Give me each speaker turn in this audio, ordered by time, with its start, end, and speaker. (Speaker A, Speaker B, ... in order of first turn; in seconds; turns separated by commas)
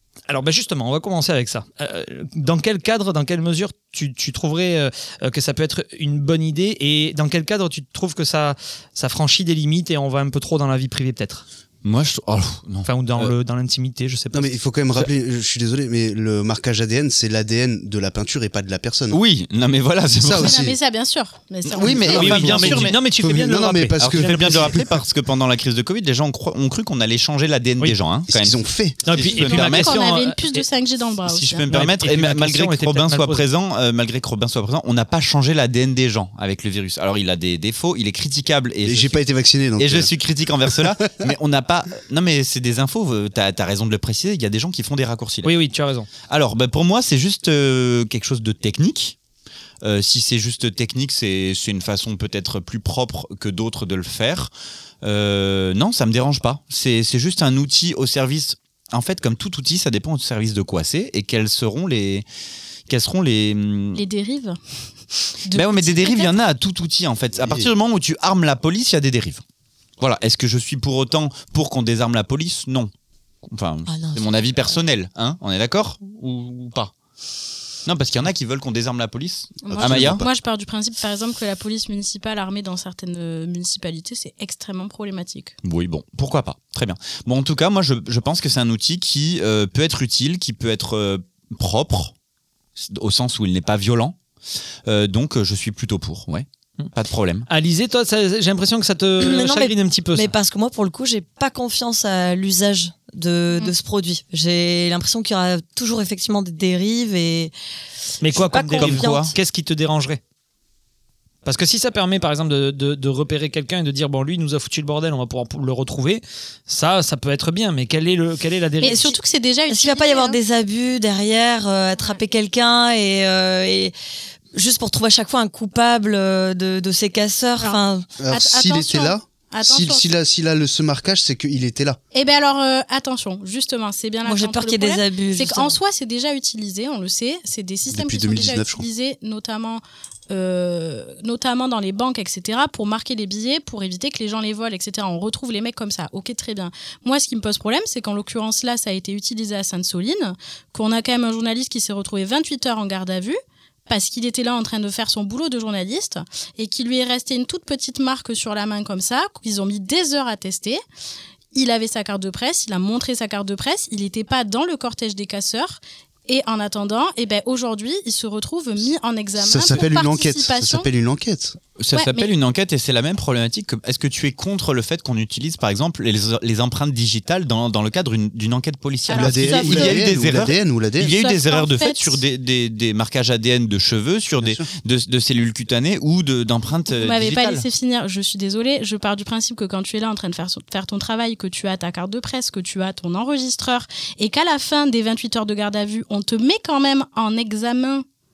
Speaker A: 0.3-11.4, Speaker B: 11.8-13.3, Speaker A: 12.8-14.5, Speaker C: 14.3-19.2, Speaker B: 19.1-20.6, Speaker C: 20.1-20.8, Speaker D: 20.4-22.2, Speaker B: 21.6-23.0, Speaker C: 21.8-24.9, Speaker A: 22.1-24.8, Speaker B: 24.0-29.9, Speaker C: 28.3-29.1, Speaker A: 29.0-30.6, Speaker D: 29.3-31.6, Speaker B: 31.3-39.2, Speaker A: 31.7-33.4, Speaker C: 38.8-40.1, Speaker B: 39.8-45.5, Speaker C: 40.8-41.3, Speaker A: 45.4-46.1, Speaker B: 46.3-49.1, Speaker B: 49.8-54.5, Speaker B: 55.0-62.2, Speaker B: 62.9-64.0, Speaker D: 64.0-64.6, Speaker D: 65.4-66.4, Speaker B: 65.5-69.4, Speaker C: 67.3-67.7, Speaker B: 70.0-72.9, Speaker B: 73.5-76.9, Speaker E: 73.8-74.3, Speaker B: 77.8-80.2, Speaker D: 79.6-85.5, Speaker C: 79.7-80.2, Speaker B: 85.6-92.1, Speaker B: 92.8-94.2, Speaker B: 94.8-97.5, Speaker A: 97.5-100.3, Speaker E: 99.2-107.5, Speaker A: 108.2-110.2, Speaker E: 108.3-109.3, Speaker B: 108.7-109.3, Speaker A: 111.4-119.1, Speaker D: 118.8-120.4, Speaker E: 119.7-123.9, Speaker E: 124.5-128.1, Speaker D: 127.6-130.1, Speaker C: 128.2-132.0, Speaker D: 132.1-160.8, Speaker E: 134.2-135.8, Speaker C: 137.9-138.8, Speaker D: 161.5-170.9, Speaker C: 169.4-171.6, Speaker B: 171.8-187.6, Speaker D: 171.9-172.3, Speaker D: 179.1-180.1, Speaker C: 179.1-181.1, Speaker D: 181.1-182.2, Speaker C: 184.4-184.7, Speaker D: 186.9-198.0